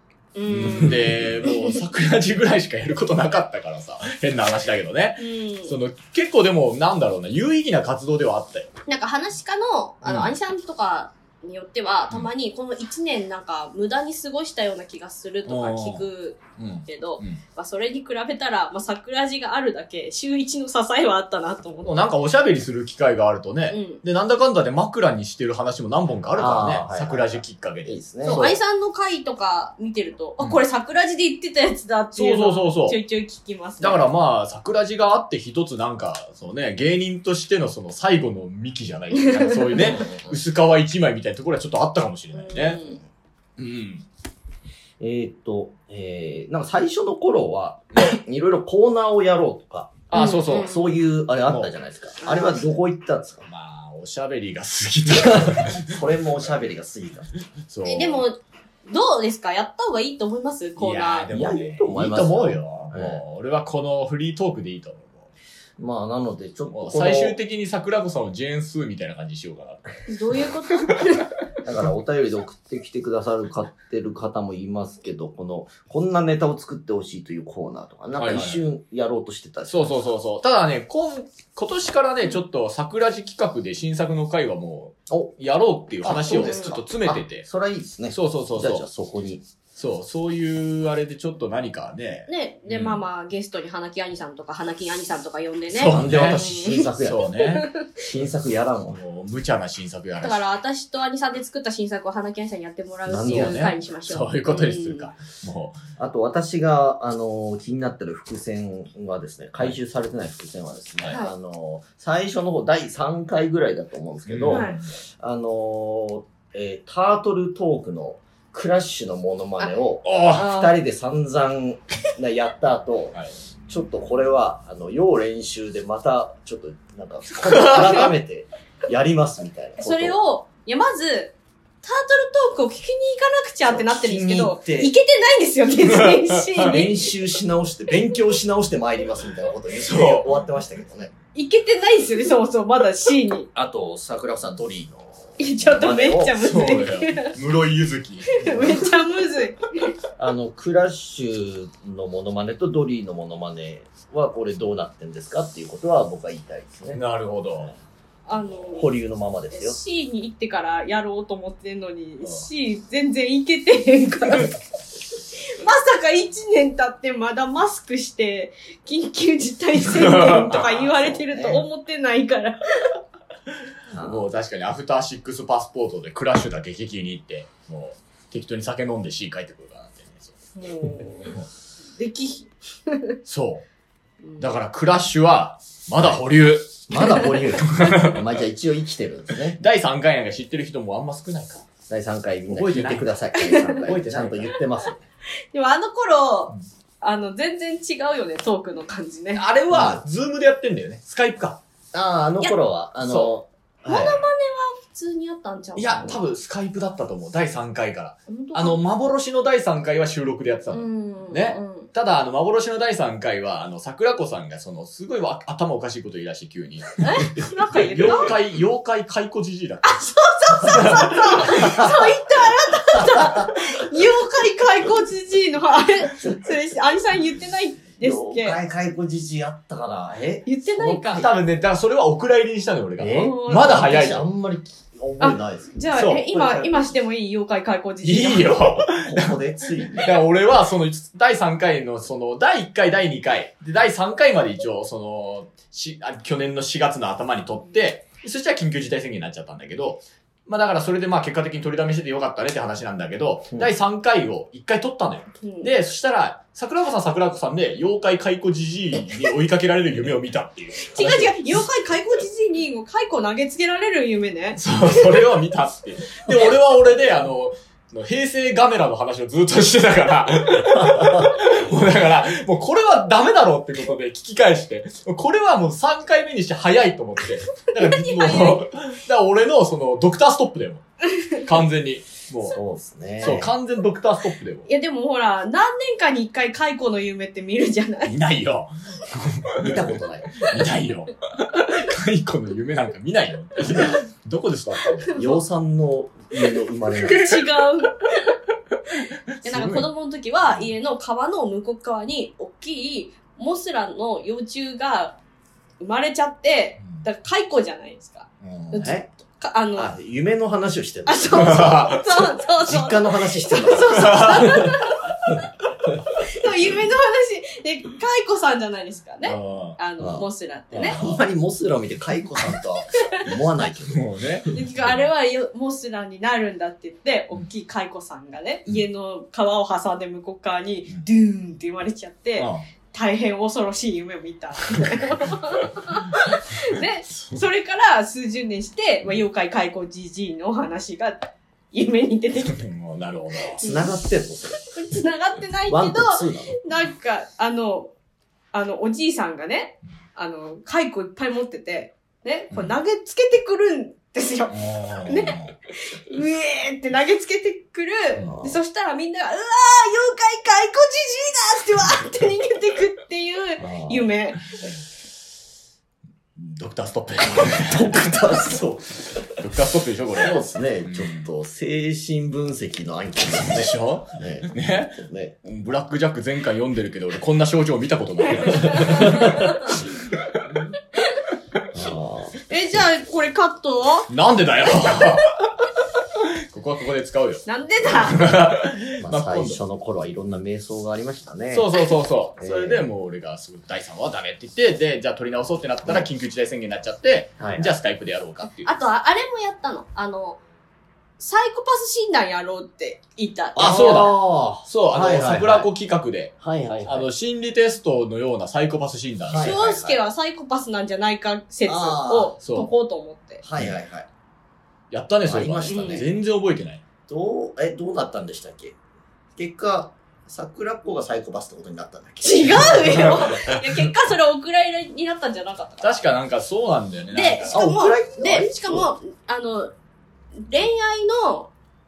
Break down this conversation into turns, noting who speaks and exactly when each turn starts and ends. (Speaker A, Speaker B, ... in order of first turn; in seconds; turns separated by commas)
Speaker A: 0.3-1.6, Speaker B: 0.5-8.7, Speaker A: 5.2-5.7, Speaker A: 8.9-22.1, Speaker B: 10.0-10.3, Speaker B: 15.5-16.1, Speaker B: 16.6-17.4, Speaker B: 21.8-28.5, Speaker A: 23.7-24.0, Speaker C: 26.3-28.5, Speaker A: 28.2-34.0, Speaker B: 32.1-33.0, Speaker B: 33.8-42.8, Speaker A: 39.3-39.9, Speaker C: 39.8-40.4, Speaker A: 42.3-43.0, Speaker B: 43.6-44.0, Speaker C: 45.0-53.5, Speaker B: 50.1-50.7, Speaker A: 50.1-51.0, Speaker B: 51.5-51.7, Speaker A: 52.2-52.6, Speaker B: 53.5-55.9, Speaker C: 55.1-57.3, Speaker B: 57.7-58.2, Speaker A: 57.8-61.3, Speaker B: 60.8-65.3, Speaker C: 61.3-63.2, Speaker C: 65.8-67.4, Speaker B: 66.7-69.9, Speaker A: 70.1-71.3, Speaker C: 71.6-80.0, Speaker B: 78.2-78.6, Speaker B: 79.7-87.5, Speaker C: 86.0-89.5, Speaker A: 86.3-86.7, Speaker B: 88.1-88.8, Speaker B: 89.8-93.0, Speaker A: 92.3-97.9, Speaker B: 95.7-97.7, Speaker C: 95.9-97.3, Speaker C: 98.0-99.0, Speaker B: 98.9-100.4, Speaker A: 100.2-105.1, Speaker C: 103.1-103.7, Speaker B: 103.2-105.8, Speaker C: 106.0-123.2, Speaker B: 114.3-114.9, Speaker A: 114.5-114.8, Speaker B: 120.0-120.5, Speaker A: 120.3-120.7, Speaker C: 123.7-130.2, Speaker B: 127.4-128.1, Speaker A: 129.8-137.1, Speaker C: 133.6-134.9, Speaker B: 135.9-136.7, Speaker C: 136.6-141.1, Speaker B: 139.8-140.3, Speaker A: 141.3-143.5, Speaker C: 143.5-146.4, Speaker A: 145.4-147.3, Speaker B: 146.4-148.5, Speaker A: 148.4-149.6, Speaker C: 148.4-148.8, Speaker C: 150.2-157.0, Speaker B: 156.9-157.7, Speaker A: 158.3-158.9, Speaker C: 158.5-159.8, Speaker A: 159.5-164.6, Speaker A: 165.5-172.9, Speaker B: 169.8-171.2, Speaker C: 170.5-171.6, Speaker C: 173.9-174.2, Speaker B: 174.0-180.3, Speaker A: 180.6-181.4, Speaker A: 182.0-183.2, Speaker B: 183.2-183.6, Speaker B: 184.4-188.2, Speaker C: 186.9-189.6, Speaker B: 189.5-191.6, Speaker C: 191.9-195.0, Speaker B: 192.5-193.1, Speaker A: 193.3-193.8, Speaker B: 193.8-194.6, Speaker A: 195.5-199.4, Speaker B: 199.3-201.6, Speaker C: 199.7-200.0, Speaker C: 201.9-204.2, Speaker B: 203.0-203.3, Speaker A: 203.8-206.2, Speaker B: 205.8-217.2, Speaker A: 208.3-208.8, Speaker A: 210.7-211.9, Speaker A: 217.0-218.3, Speaker B: 217.8-220.0, Speaker A: 219.8-228.6, Speaker B: 220.6-221.8, Speaker C: 221.6-222.1, Speaker C: 222.9-223.7, Speaker C: 228.0-231.4, Speaker A: 230.4-231.2, Speaker B: 231.1-234.2, Speaker C: 233.0-236.8, Speaker A: 233.1-233.9, Speaker A: 235.2-238.7, Speaker B: 235.9-236.2, Speaker B: 238.0-239.3, Speaker C: 238.8-240.1, Speaker B: 239.9-261.4, Speaker A: 255.4-255.7, Speaker A: 260.8-265.1, Speaker B: 264.6-282.6, Speaker C: 270.8-271.3, Speaker A: 277.8-278.6, Speaker C: 282.5-283.5, Speaker B: 283.2-284.7, Speaker A: 284.7-288.1, Speaker B: 288.0-289.8, Speaker C: 289.6-290.6, Speaker B: 290.4-295.1, Speaker A: 295.1-295.4, Speaker C: 295.1-297.4, Speaker A: 297.0-298.3, Speaker B: 299.4-299.9, Speaker A: 299.4-305.2, Speaker A: 305.8-309.9, Speaker B: 308.4-308.9, Speaker C: 308.8-309.1, Speaker C: 309.7-311.9, Speaker A: 311.1-315.4, Speaker B: 311.4-312.0, Speaker C: 312.6-314.7, Speaker B: 313.9-314.7, Speaker A: 316.3-321.0, Speaker B: 319.2-319.8, Speaker C: 320.0-320.2, Speaker B: 320.7-321.2, Speaker C: 320.8-324.1, Speaker B: 323.9-324.9, Speaker A: 324.5-342.6, Speaker B: 332.4-332.6, Speaker B: 334.7-335.9, Speaker B: 337.1-337.4, Speaker B: 342.4-343.6, Speaker A: 343.6-343.9, Speaker C: 343.6-344.6, Speaker A: 344.6-347.9, Speaker C: 345.7-346.6, Speaker A: 348.5-364.5, Speaker B: 354.5-355.5, Speaker C: 358.2-358.6, Speaker C: 363.6-364.1, Speaker B: 366.4-368.1, Speaker C: 367.2-369.2, Speaker B: 369.4-371.2, Speaker C: 370.2-375.4, Speaker B: 373.3-380.4, Speaker A: 378.5-379.2, Speaker C: 381.7-382.4, Speaker A: 382.5-384.1, Speaker B: 384.1-385.3, Speaker B: 386.5-389.6, Speaker A: 387.4-388.2, Speaker C: 389.0-391.7, Speaker B: 391.5-398.7, Speaker C: 392.4-392.9, Speaker C: 397.4-397.7, Speaker A: 398.6-400.4, Speaker A: 401.2-404.0, Speaker C: 403.6-405.7, Speaker B: 403.6-409.5, Speaker C: 406.4-407.1, Speaker C: 409.3-410.0, Speaker A: 409.4-413.4, Speaker C: 411.6-412.3, Speaker B: 412.4-412.7, Speaker C: 413.4-414.1, Speaker B: 414.9-416.8, Speaker C: 415.2-416.1, Speaker A: 415.7-416.0, Speaker C: 417.1-418.8, Speaker C: 419.4-423.4, Speaker A: 422.2-426.0, Speaker B: 425.8-427.6, Speaker A: 427.1-429.7, Speaker C: 427.5-428.9, Speaker A: 430.4-431.5